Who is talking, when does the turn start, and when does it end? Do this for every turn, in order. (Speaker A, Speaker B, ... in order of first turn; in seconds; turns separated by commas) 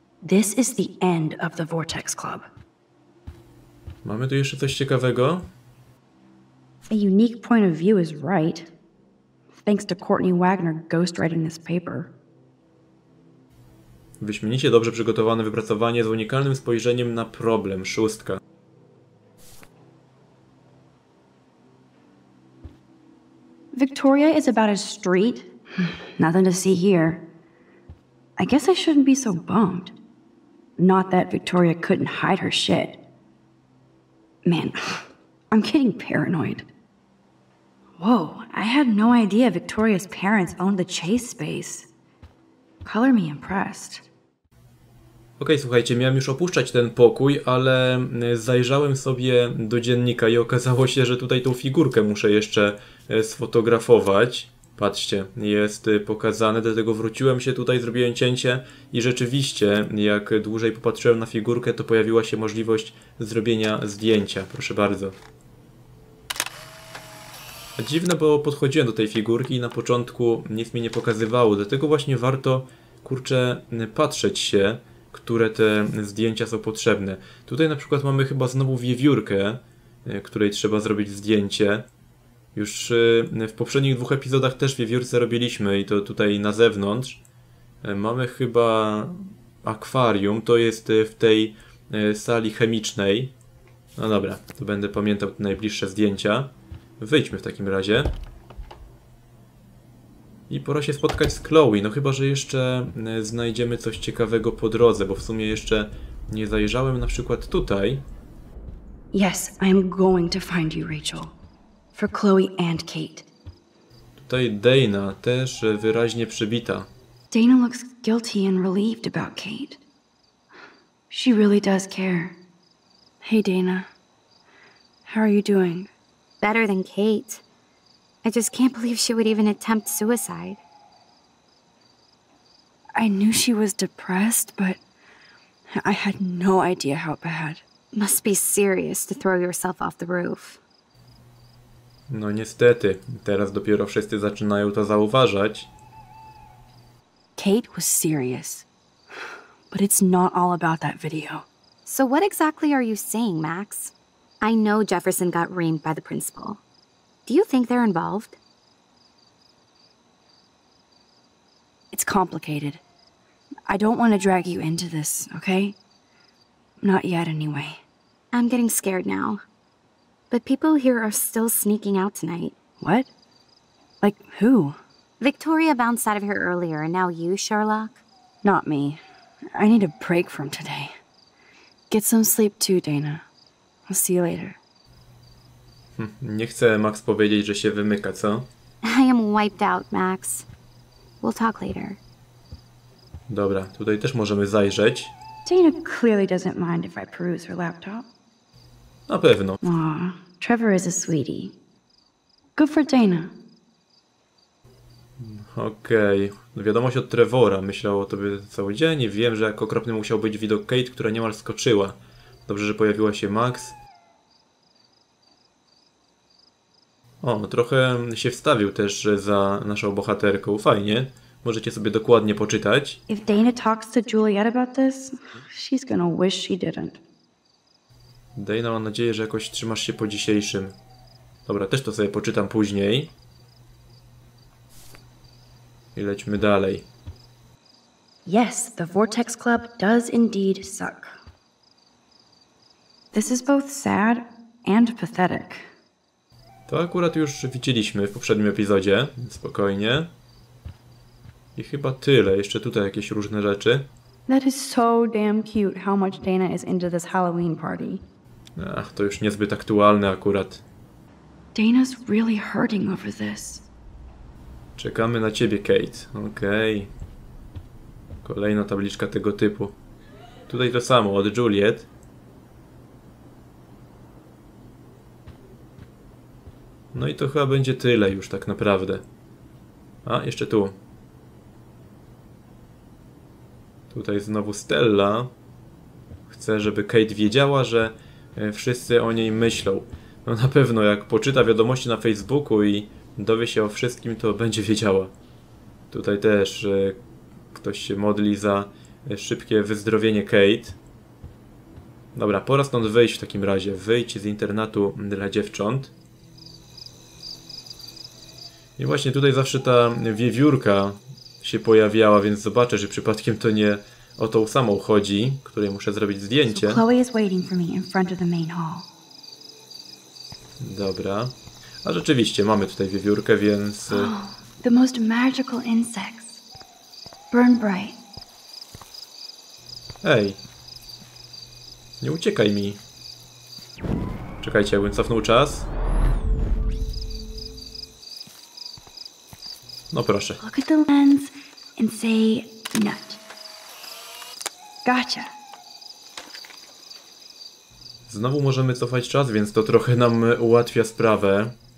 Speaker A: 0.2-2.5, Speaker B: 4.0-5.5, Speaker A: 6.9-8.7, Speaker A: 9.7-12.1, Speaker B: 14.2-18.4, Speaker A: 23.7-27.3, Speaker A: 28.4-29.9, Speaker A: 30.8-33.0, Speaker A: 34.5-36.7, Speaker A: 38.0-41.9, Speaker A: 42.9-44.1, Speaker B: 45.4-65.2, Speaker B: 67.8-81.9, Speaker B: 82.5-87.2, Speaker B: 87.8-93.3, Speaker B: 94.0-98.2, Speaker B: 100.5-108.0, Speaker A: 109.1-111.3, Speaker A: 112.0-113.3, Speaker B: 114.2-116.9, Speaker A: 117.3-119.8, Speaker A: 121.1-122.4, Speaker A: 123.2-123.9, Speaker A: 125.1-125.9, Speaker C: 126.4-127.4, Speaker C: 128.2-130.6, Speaker A: 133.0-134.8, Speaker A: 135.7-137.6, Speaker C: 137.9-140.6, Speaker B: 142.1-145.7, Speaker A: 147.4-148.7, Speaker A: 149.7-151.4, Speaker C: 151.9-156.6, Speaker C: 157.3-158.4, Speaker A: 161.9-162.8, Speaker A: 163.7-165.8, Speaker A: 166.8-167.8, Speaker C: 168.3-169.4, Speaker C: 170.3-172.6, Speaker A: 172.8-173.1, Speaker A: 174.0-174.8, Speaker C: 175.2-178.0, Speaker A: 178.4-179.0, Speaker A: 179.5-180.9, Speaker A: 181.9-183.2, Speaker A: 183.9-184.6, Speaker B: 186.0-188.5, Speaker C: 188.8-190.5, Speaker C: 191.2-192.0, Speaker B: 193.3-195.1, Speaker A: 195.4-198.1, Speaker B: 199.1-199.6, Speaker A: 199.6-201.6, Speaker A: 202.6-203.3, Speaker B: 205.2-213.8, Speaker B: 217.2-223.0, Speaker A: 223.1-227.0, Speaker B: 228.4-230.8, Speaker B: 231.5-233.1, Speaker B: 235.9-236.9, Speaker A: 238.3-241.2, Speaker A: 243.1-245.7, Speaker B: 246.7-250.1, Speaker B: 251.6-253.9, Speaker A: 254.3-258.0, Speaker B: 258.6-260.6, Speaker A: 261.6-263.6, Speaker B: 264.8-266.9, Speaker B: 268.2-269.8, Speaker B: 270.5-271.9, Speaker B: 276.9-279.0, Speaker B: 280.1-280.8, Speaker B: 283.9-285.3, Speaker B: 286.3-295.1, Speaker B: 295.9-297.0, Speaker B: 297.5-300.8, Speaker B: 302.1-305.9, Speaker B: 308.8-316.8, Speaker A: 316.5-318.9, Speaker B: 320.6-324.1, Speaker A: 323.9-326.4, Speaker A: 327.3-328.0, Speaker B: 330.0-330.4, Speaker B: 332.0-332.8, Speaker B: 334.4-335.7, Speaker B: 339.9-340.4, Speaker A: 340.4-343.2, Speaker A: 344.9-345.3, Speaker B: 348.1-351.6